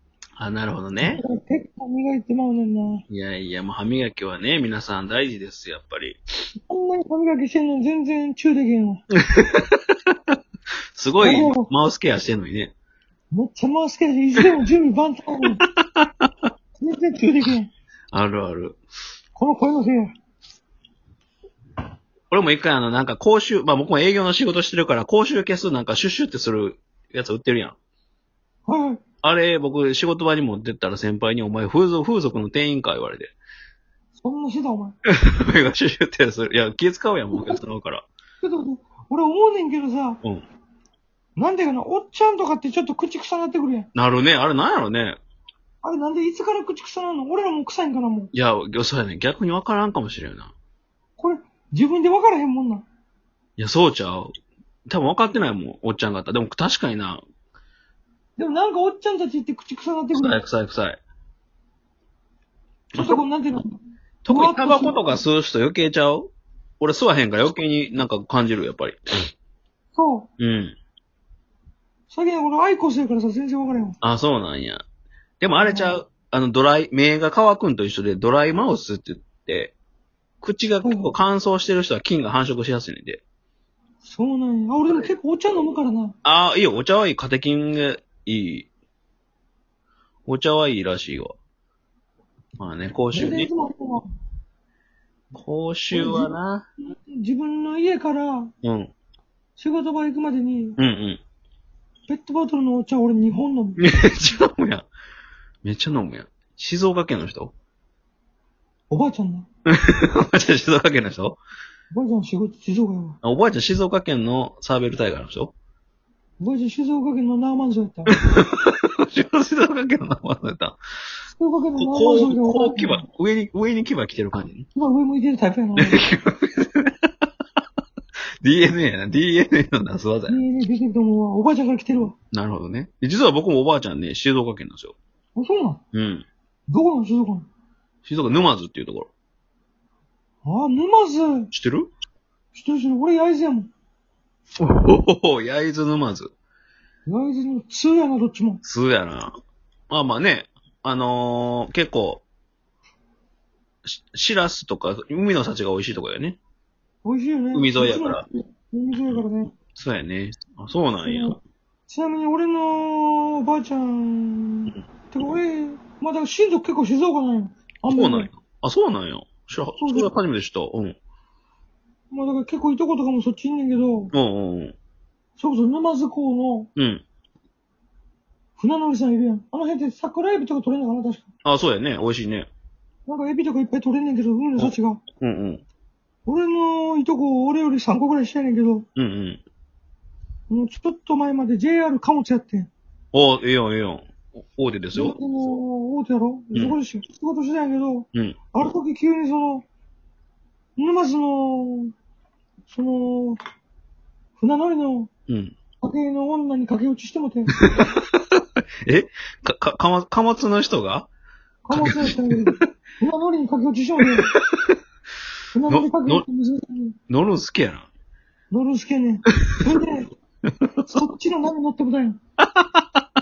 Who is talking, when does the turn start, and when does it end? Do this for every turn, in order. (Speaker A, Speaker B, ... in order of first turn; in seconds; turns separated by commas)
Speaker A: 0.4-1.2, Speaker B: 1.0-3.0, Speaker A: 3.1-6.2, Speaker B: 6.7-9.0, Speaker A: 9.2-10.1, Speaker A: 10.9-12.7, Speaker B: 11.2-11.7, Speaker B: 13.3-15.6, Speaker A: 15.7-16.3, Speaker B: 16.8-17.7, Speaker A: 18.1-18.8, Speaker B: 19.4-20.1, Speaker A: 22.3-27.8, Speaker B: 28.6-29.0, Speaker A: 29.2-33.3, Speaker B: 34.1-35.0, Speaker A: 35.1-38.0, Speaker B: 38.4-40.2, Speaker B: 41.4-43.9, Speaker A: 43.9-45.2, Speaker B: 45.8-48.3, Speaker A: 48.3-50.5, Speaker B: 51.2-52.8, Speaker A: 53.6-54.3, Speaker A: 54.9-57.2, Speaker B: 58.4-60.4, Speaker A: 60.1-61.0, Speaker A: 62.9-63.2, Speaker B: 63.0-65.0, Speaker A: 64.2-69.0, Speaker B: 69.9-70.3, Speaker A: 70.4-70.7, Speaker B: 72.1-74.0, Speaker A: 74.0-74.8, Speaker A: 75.4-79.7, Speaker B: 75.6-76.0, Speaker A: 80.4-83.2, Speaker B: 80.8-81.1, Speaker B: 84.0-86.1, Speaker A: 86.2-88.7, Speaker A: 90.2-91.3, Speaker A: 92.6-93.5, Speaker B: 93.1-94.0, Speaker A: 95.3-96.7, Speaker B: 95.9-96.3, Speaker B: 96.9-98.5, Speaker A: 98.6-98.9, Speaker B: 99.6-100.8, Speaker A: 100.8-101.2, Speaker B: 102.1-103.8, Speaker A: 103.8-104.9, Speaker A: 105.6-107.5, Speaker B: 108.9-109.5, Speaker A: 109.7-111.4, Speaker B: 111.9-113.2, Speaker A: 113.2-115.5, Speaker B: 116.4-118.2, Speaker A: 118.1-120.8, Speaker B: 121.3-123.0, Speaker A: 121.8-124.7, Speaker B: 124.7-126.0, Speaker A: 125.8-127.0, Speaker A: 128.4-130.3, Speaker B: 130.3-132.1, Speaker A: 132.3-134.9, Speaker B: 135.3-135.8, Speaker A: 135.9-136.2, Speaker B: 136.7-137.5, Speaker A: 138.0-139.1, Speaker B: 140.4-141.5, Speaker A: 141.5-141.9, Speaker B: 142.5-143.7, Speaker A: 144.6-146.3, Speaker B: 147.1-148.6, Speaker A: 148.6-149.3, Speaker A: 149.9-152.2, Speaker A: 153.8-156.4, Speaker B: 157.0-159.5, Speaker A: 157.5-158.2, Speaker A: 159.7-161.3, Speaker B: 161.0-168.3, Speaker A: 167.9-171.0, Speaker B: 169.8-170.1, Speaker B: 172.1-174.1, Speaker A: 174.1-174.7, Speaker B: 175.4-176.7, Speaker A: 176.8-177.0, Speaker B: 178.6-181.3, Speaker A: 181.4-182.5, Speaker B: 183.1-185.0, Speaker A: 184.6-185.6, Speaker B: 186.2-188.8, Speaker A: 188.9-189.4, Speaker B: 190.5-192.7, Speaker A: 193.1-195.2, Speaker B: 194.9-199.6, Speaker B: 200.8-201.9, Speaker B: 202.7-203.4, Speaker B: 204.4-205.1, Speaker A: 205.3-205.5, Speaker B: 205.8-207.6, Speaker A: 207.6-211.1, Speaker B: 211.7-214.3, Speaker A: 211.7-212.5, Speaker A: 214.0-214.8, Speaker B: 215.5-216.9, Speaker A: 215.7-216.2, Speaker A: 217.1-217.9, Speaker B: 218.5-220.1, Speaker B: 220.8-222.2, Speaker A: 222.4-223.0